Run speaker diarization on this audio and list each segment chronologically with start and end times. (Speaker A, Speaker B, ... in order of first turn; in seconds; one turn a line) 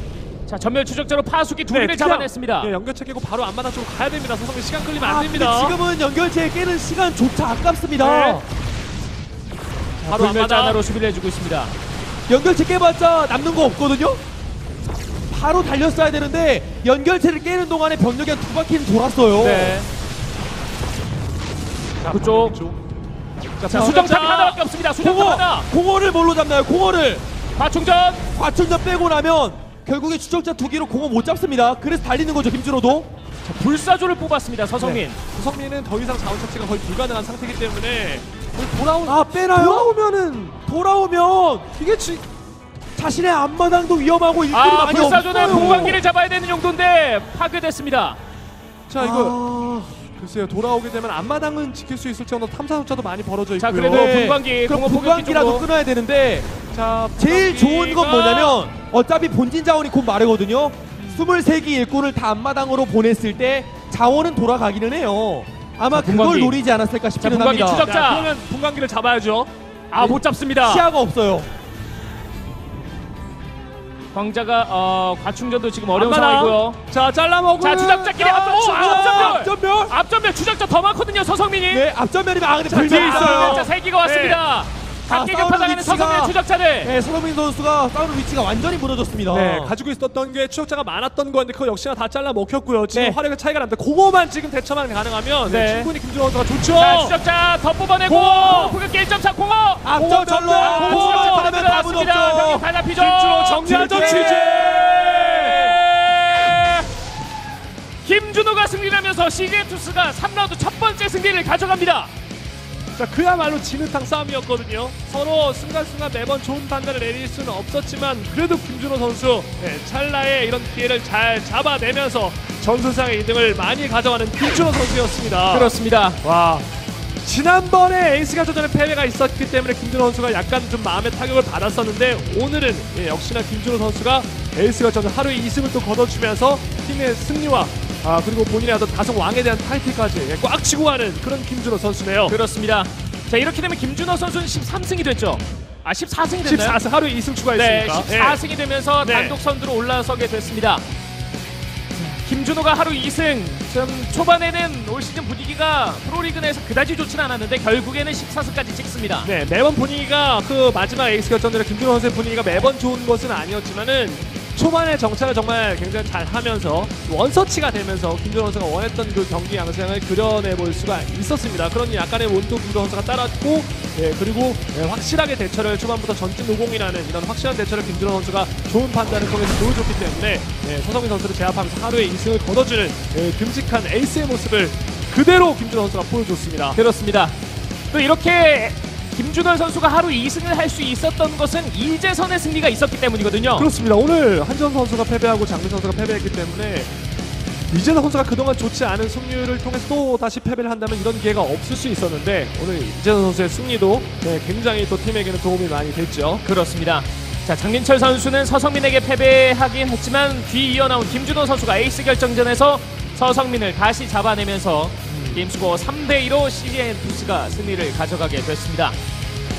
Speaker A: 0.5-2.7
Speaker B: 1.7-5.8
Speaker C: 5.0-8.4
Speaker B: 8.0-8.4
Speaker A: 10.0-11.7
Speaker B: 10.0-10.8
Speaker C: 12.3-14.2
Speaker C: 15.3-19.8
Speaker A: 19.3-19.9
Speaker B: 22.0-22.8
Speaker A: 22.1-22.6
Speaker B: 23.6-24.6
Speaker C: 23.6-24.1
Speaker A: 23.7-25.7
Speaker C: 25.0-27.2
Speaker A: 27.6-28.3
Speaker C: 28.3-33.1
Speaker A: 33.4-35.2
Speaker B: 34.8-40.6
Speaker C: 39.0-39.9
Speaker C: 40.6-41.7
Speaker B: 41.7-42.2
Speaker C: 43.0-46.0
Speaker A: 44.5-48.2
Speaker B: 45.4-46.0
Speaker B: 48.9-54.2
Speaker C: 49.0-49.9
Speaker A: 53.6-55.7
Speaker C: 53.9-56.5
Speaker B: 56.7-58.6
Speaker C: 57.2-67.8
Speaker A: 65.9-66.6
Speaker A: 67.2-68.3
Speaker B: 67.6-69.5
Speaker A: 69.9-70.9
Speaker C: 70.0-71.5
Speaker A: 74.1-76.8
Speaker B: 75.9-79.4
Speaker A: 77.6-81.9
Speaker C: 78.7-79.9
Speaker C: 81.7-83.7
Speaker B: 82.6-84.4
Speaker A: 82.8-86.9
Speaker C: 85.1-89.7
Speaker B: 89.3-97.2
Speaker C: 92.9-93.2
Speaker A: 95.5-95.9
Speaker A: 96.7-99.9
Speaker B: 98.0-98.8
Speaker C: 99.8-102.7
Speaker B: 99.9-101.6
Speaker A: 100.6-106.9
Speaker B: 103.0-105.7
Speaker C: 103.6-105.7
Speaker A: 108.0-112.1
Speaker B: 113.0-126.6
Speaker A: 125.5-126.2
Speaker B: 127.2-142.3
Speaker A: 142.3-146.8
Speaker B: 146.4-148.4
Speaker A: 147.5-150.8
Speaker B: 149.0-149.4
Speaker A: 151.9-159.3
Speaker B: 159.2-186.8
Speaker A: 186.7-187.3
Speaker A: 187.9-193.7
Speaker B: 193.6-196.9
Speaker B: 197.7-206.4
Speaker A: 206.4-219.0
Speaker B: 215.1-215.4